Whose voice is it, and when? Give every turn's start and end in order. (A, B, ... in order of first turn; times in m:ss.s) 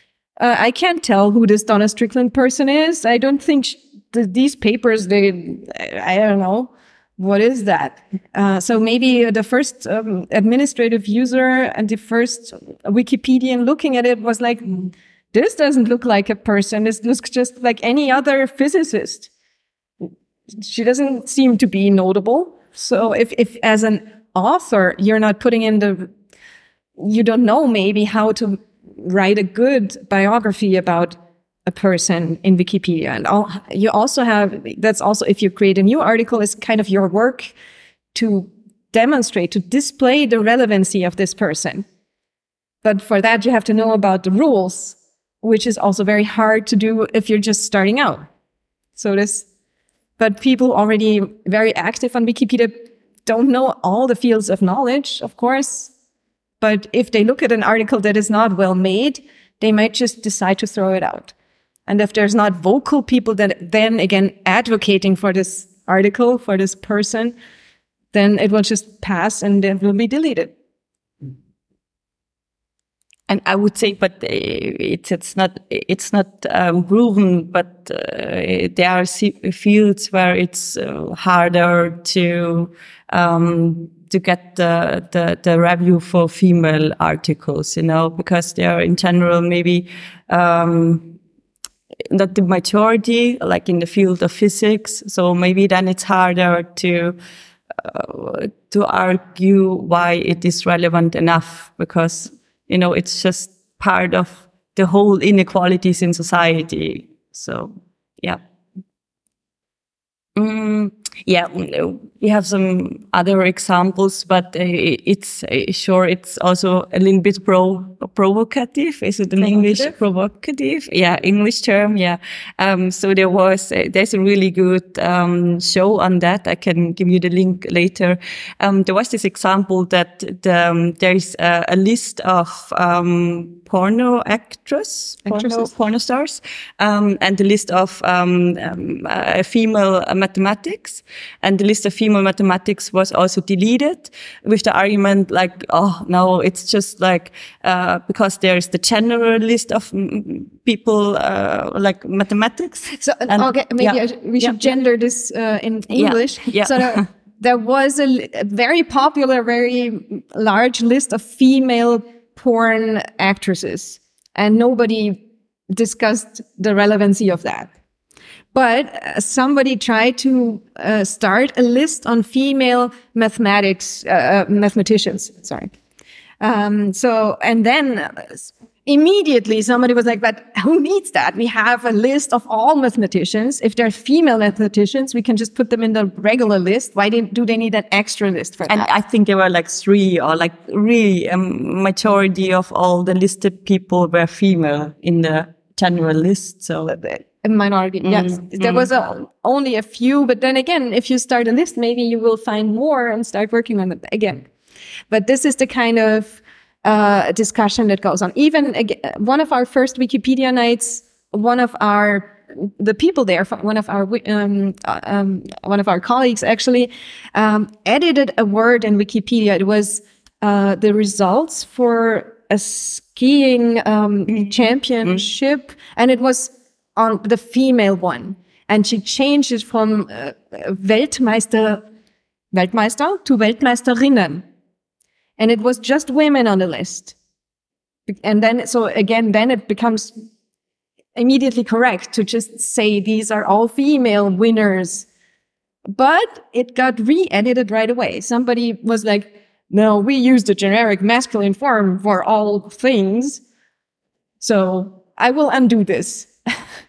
0:00.4-0:19.3 A
0:20.0-0:26.1 A
0:27.0-0:37.5 A
0:38.1-0:41.8 A
0:42.8-0:48.3 A
0:49.0-0:49.4 A
0:50.2-0:55.9 A
0:56.6-1:01.3 A
1:01.9-1:07.3 A
1:08.1-1:10.5 A
1:13.3-1:31.2 B
1:32.1-1:37.2 B
1:37.8-1:48.4 B
1:50.4-2:34.7 B
1:59.4-1:59.9 A
2:15.2-2:15.7 A
2:33.0-2:47.7 A
2:35.9-2:37.0 B
2:48.5-2:55.7 A
2:56.4-3:08.9 A
3:08.7-3:16.9 B
3:16.8-3:24.5 A
3:18.0-3:18.9 B
3:25.1-3:51.8 A
3:44.3-3:45.2 B
3:52.5-3:54.4 A
3:55.4-3:57.1 A
3:58.1-4:00.2 A
4:01.1-4:05.1 A
4:05.9-4:13.4 A
4:14.4-4:16.6 A